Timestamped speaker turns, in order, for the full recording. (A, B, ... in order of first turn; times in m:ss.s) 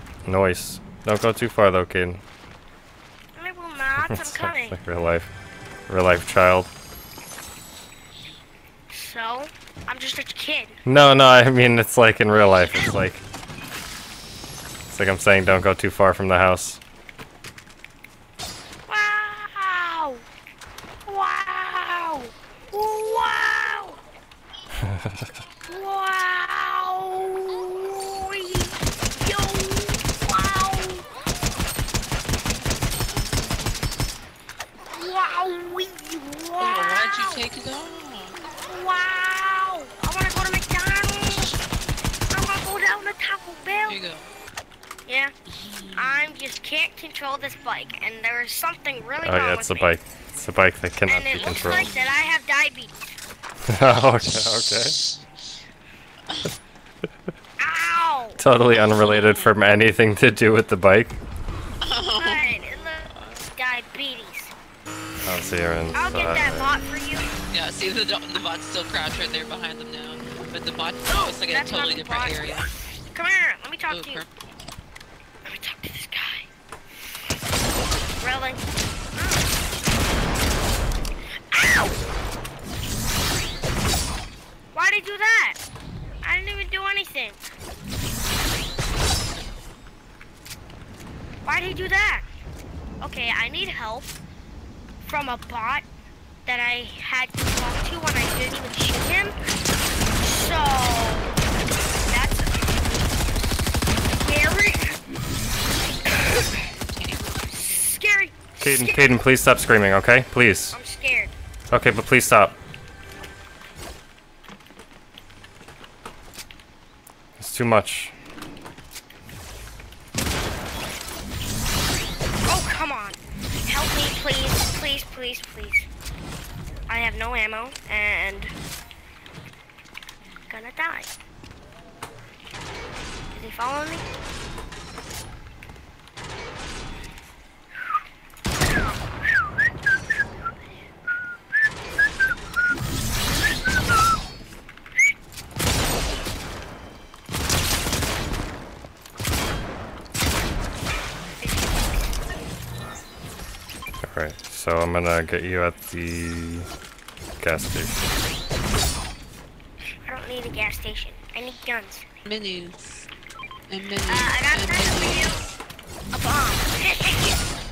0:00.2-0:02.2 A
0:03.4-0:04.8 B
0:04.0-0:05.3 A
0:05.9-0:06.7 A
0:08.9-0:10.8 B
0:10.8-0:13.2 A
0:14.9-0:16.8 A
0:18.9-0:20.2 B
0:21.0-0:24.0 B
0:25.7-0:31.0 B
0:32.8-0:33.9 C
0:34.9-0:37.4 B
0:36.6-0:38.4 C
0:38.6-0:41.5 B
0:41.2-0:41.6 C
0:42.3-0:44.0 B
0:43.9-0:44.3 C
0:45.1-0:45.3 B
0:45.5-0:46.3 C
0:46.0-0:50.0 B
0:49.2-0:51.9 A
0:51.0-0:53.1 B
0:51.3-0:52.2 C
0:53.7-0:55.0 A
0:56.3-0:56.5 C
0:57.6-0:58.4 B
0:58.4-1:01.2 A
0:59.0-0:59.5 C
1:01.8-1:03.5 C
1:02.2-1:04.5 B
1:05.2-1:06.7 A
1:05.9-1:07.3 B
1:07.5-1:12.7 C
1:11.1-1:14.2 B
1:13.9-1:14.6 C
1:15.4-1:16.5 B
1:18.2-1:19.5 B
1:21.5-1:22.0 B
1:24.7-1:25.6 B
1:26.2-1:27.4 B
1:31.4-1:32.2 B
1:33.0-1:34.1 B
1:35.0-1:35.8 B
1:36.4-1:39.3 B
1:40.2-1:41.4 B
1:42.1-1:42.6 B
1:44.1-1:45.0 B
1:46.0-1:46.6 B
1:46.9-1:47.9 C
1:47.5-1:49.2 B
1:48.6-1:50.8 A
1:50.7-1:51.3 B
1:51.7-1:52.6 A
1:57.4-1:58.1 A
2:02.4-2:05.9 B
2:06.9-2:08.5 B
2:10.5-2:11.1 B
2:13.3-2:14.0 B
2:31.4-2:32.2 B
2:34.0-2:36.7 A
2:37.4-2:38.2 A
2:40.0-2:42.0 B
2:42.2-2:42.8 C
2:43.7-2:45.5 C
2:44.1-2:45.5 B
2:46.1-2:47.4 B